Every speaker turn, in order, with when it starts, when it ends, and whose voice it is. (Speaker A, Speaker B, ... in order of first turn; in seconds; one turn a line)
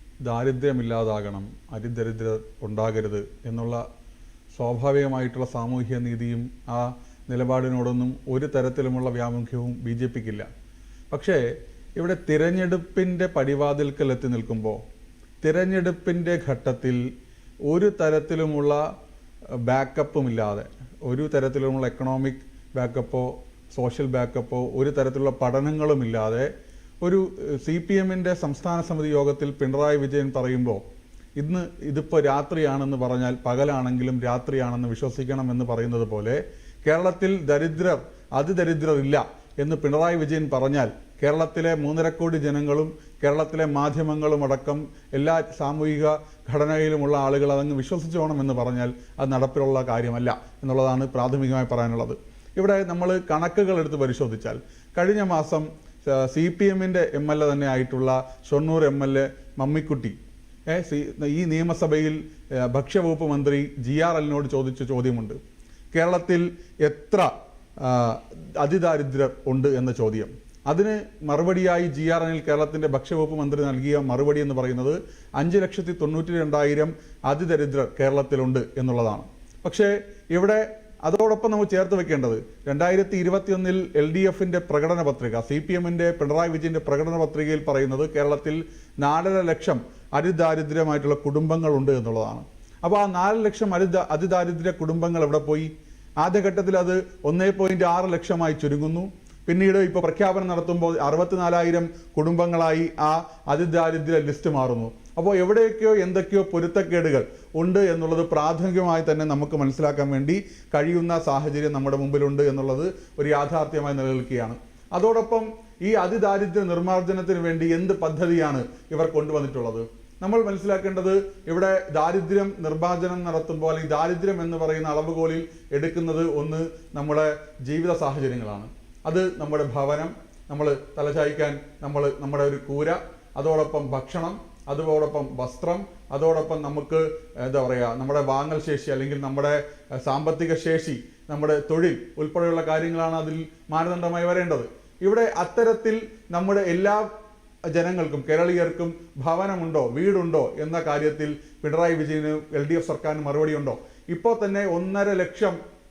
Speaker A: 0.2-3.8
Speaker A: 4.5-10.5
Speaker A: 11.1-11.4
Speaker A: 12.0-14.8
Speaker A: 15.4-17.0
Speaker A: 17.7-18.8
Speaker A: 19.6-26.5
Speaker A: 27.0-30.8
Speaker A: 31.4-60.1
Speaker A: 60.7-65.4
Speaker A: 65.9-95.7
Speaker A: 96.2-147.1
Speaker A: 147.7-155.6